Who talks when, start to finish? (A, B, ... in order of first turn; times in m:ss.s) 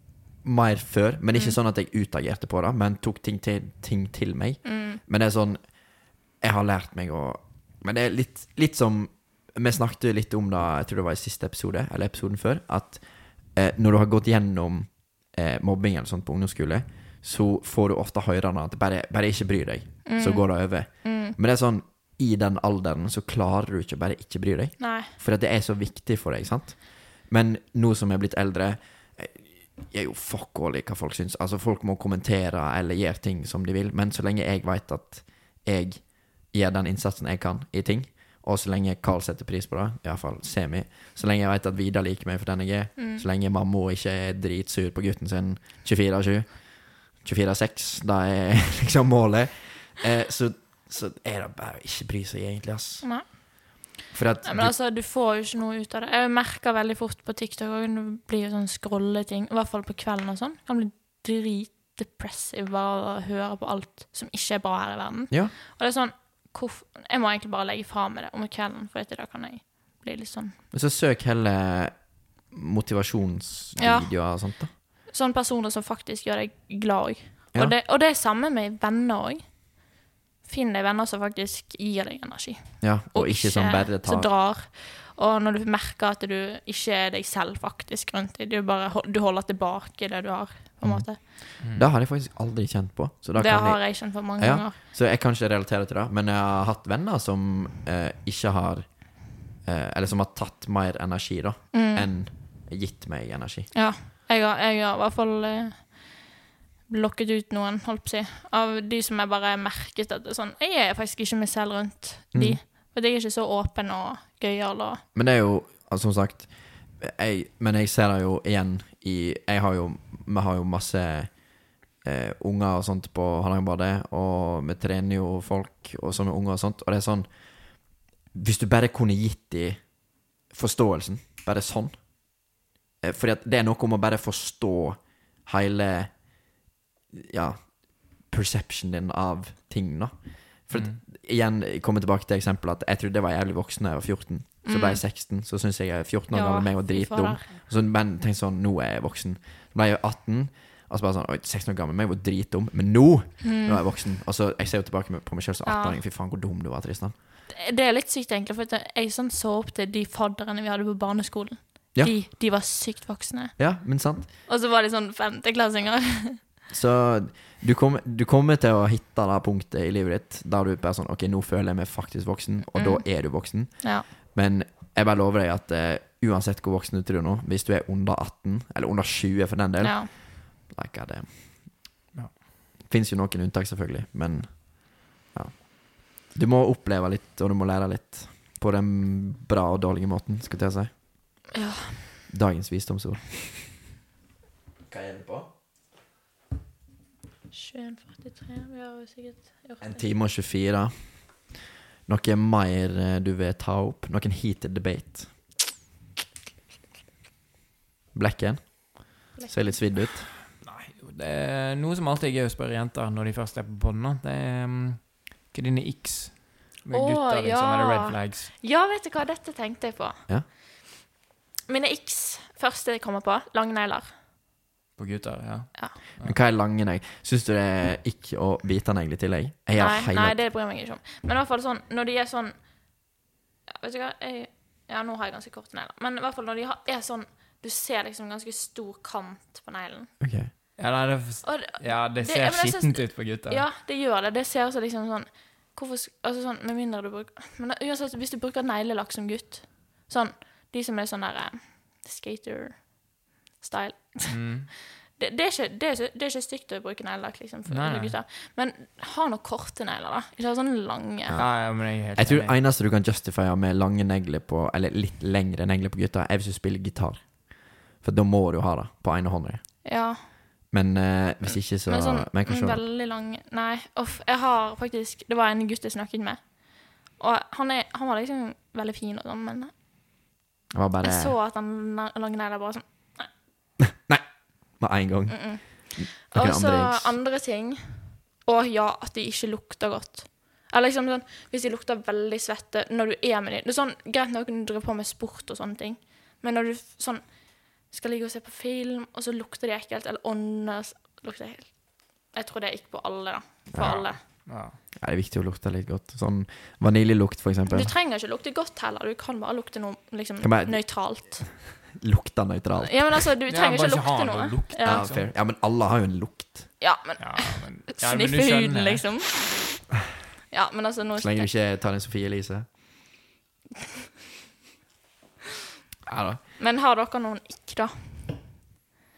0:00.4-0:05.7 A
0:04.6-0:05.0 B
0:06.4-0:13.0 A
0:13.6-0:53.0 A
0:20.1-0:21.4 B
0:24.8-0:25.1 B
0:43.0-0:43.2 B
0:53.0-1:10.6 B
0:54.1-0:54.7 A
1:10.7-1:14.7 A
1:13.8-1:14.1 B
1:15.1-1:19.4 B
1:20.4-1:31.2 B
1:22.8-1:24.3 A
1:30.8-1:38.9 A
1:31.6-1:31.9 C
1:33.4-1:34.8 B
1:39.6-1:43.7 A
1:41.7-1:42.1 B
1:43.7-1:46.2 B
1:46.9-1:55.0 B
1:52.3-1:52.6 A
1:55.2-2:01.4 A
2:02.0-2:07.3 A
2:08.3-2:09.8 A
2:10.5-2:12.0 A
2:13.0-2:16.2 A
2:17.1-2:37.2 A
2:20.7-2:21.0 C
2:24.6-2:25.0 B
2:26.3-2:27.5 B
2:33.4-2:33.8 B
2:35.7-2:36.0 B
2:37.5-2:43.6 B
2:43.6-2:44.3 A
2:44.5-2:46.4 B
2:46.7-3:01.4 A
2:52.8-2:54.1 B
2:59.8-3:00.1 B
3:02.9-3:10.9 A
3:11.5-3:12.1 B
3:12.3-3:13.8 A
3:14.9-3:15.5 A
3:17.5-3:20.0 B
3:19.8-3:21.0 A
3:22.1-3:25.3 A
3:28.1-3:30.3 A
3:29.4-3:29.8 B
3:30.5-3:38.5 C
3:36.9-3:40.2 B
3:41.7-3:44.1 B
3:45.0-3:46.4 C
3:46.2-3:50.4 A
3:49.8-3:52.6 B
3:53.7-4:00.1 B
4:00.2-4:00.5 A
4:00.8-4:03.6 C
4:01.4-4:14.4 B
4:14.3-4:14.7 C
4:15.2-4:21.4 B
4:17.7-4:18.2 C
4:21.3-4:27.4 A
4:21.4-4:22.6 C
4:27.9-4:29.6 A
4:29.8-4:30.2 B
4:30.7-4:32.8 A
4:31.9-4:36.4 B
4:37.2-4:39.7 B
4:40.7-4:41.4 A
4:41.0-4:43.3 B
4:43.9-4:44.2 A
4:44.8-4:47.2 A
4:45.3-4:57.2 B
4:57.9-5:04.2 B
5:03.7-5:04.1 A
5:04.5-5:04.8 C
5:05.0-5:07.9 A
5:07.7-5:11.6 B
5:10.4-5:10.8 A
5:12.0-5:13.2 A
5:12.8-5:15.0 B
5:13.5-5:15.3 C
5:14.8-5:16.7 A
5:16.8-5:19.9 B
5:17.2-5:19.1 C
5:20.5-5:21.5 B
5:21.2-5:22.7 A
5:26.1-5:26.4 A
5:26.6-5:28.3 B